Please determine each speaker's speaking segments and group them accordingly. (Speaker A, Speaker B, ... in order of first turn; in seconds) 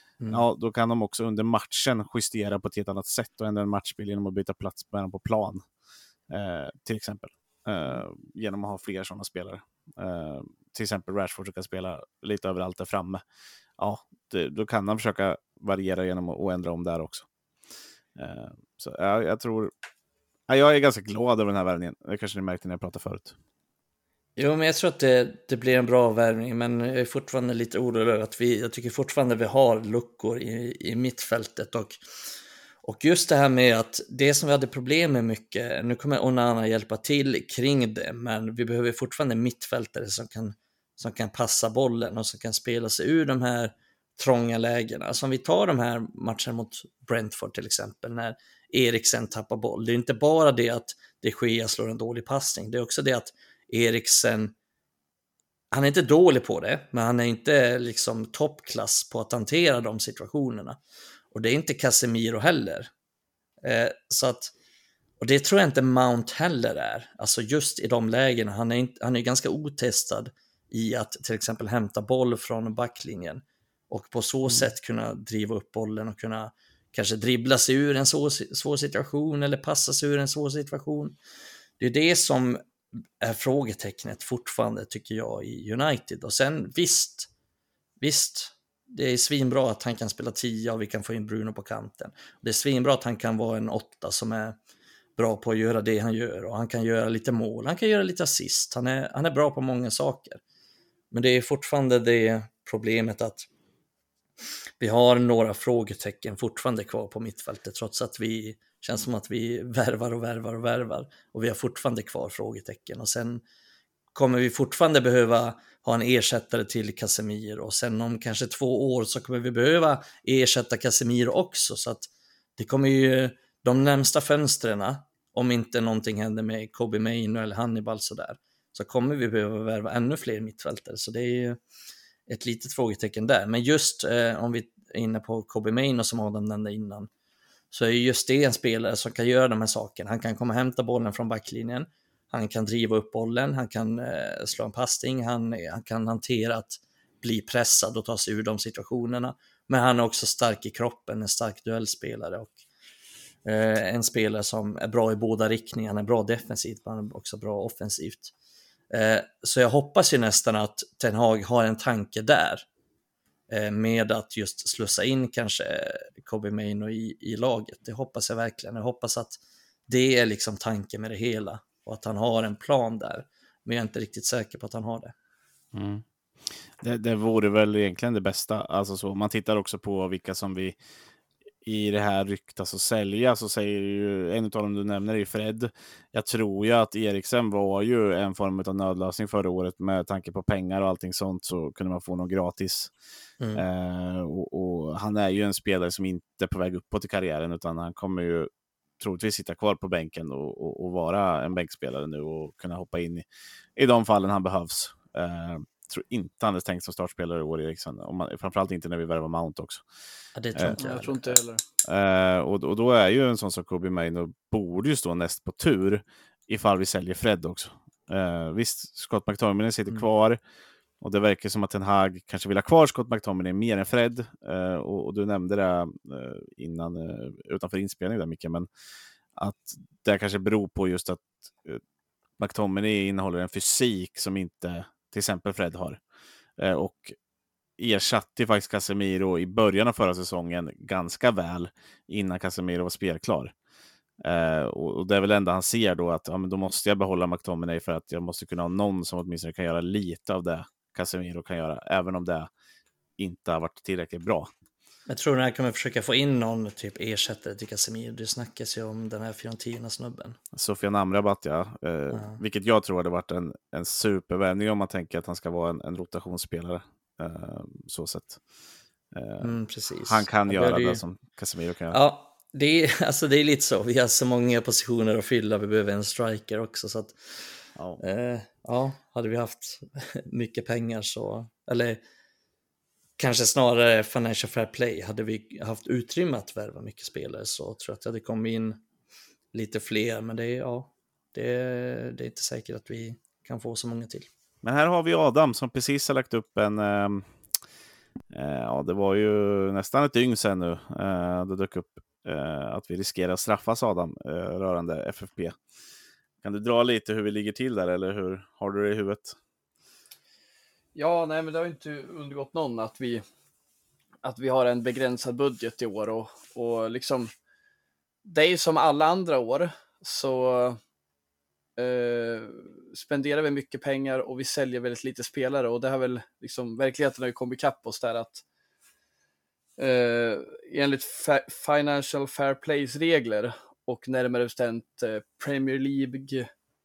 Speaker A: 0.3-5.6, 6.3-13.2, 13.8-17.2, 18.1-19.7, 20.5-23.3, 175.7-180.8, 181.6-192.9, 193.5-198.5, 199.0-203.2, 203.8-209.8, 211.8-220.4, 221.0-228.7, 229.3-231.8, 232.4-236.0, 236.6-237.2, 237.8-243.5, 244.2-252.5, 253.2-254.5, 260.5-268.4, 269.1-272.0, 294.6-297.3, 298.3-305.6, 306.4-309.4
Speaker B: 24.4-32.0, 32.8-54.5, 55.7-60.8, 61.3-62.9, 63.6-64.5, 65.2-81.2, 81.8-82.6, 83.2-87.3, 88.0-94.6, 95.2-100.4, 101.1-103.5, 104.8-113.4, 114.1-131.6, 132.3-137.1, 137.7-152.5, 153.4-158.3, 158.9-162.6, 163.5-175.1, 210.3-211.3, 255.1-260.4, 262.1-262.4, 269.4-271.0, 271.9-277.2, 278.0-282.0, 283.2-288.8, 289.5-294.3
Speaker C: 210.8-211.6, 310.9-313.2, 314.2-317.3, 318.2-320.8, 321.8-328.4, 329.8-336.5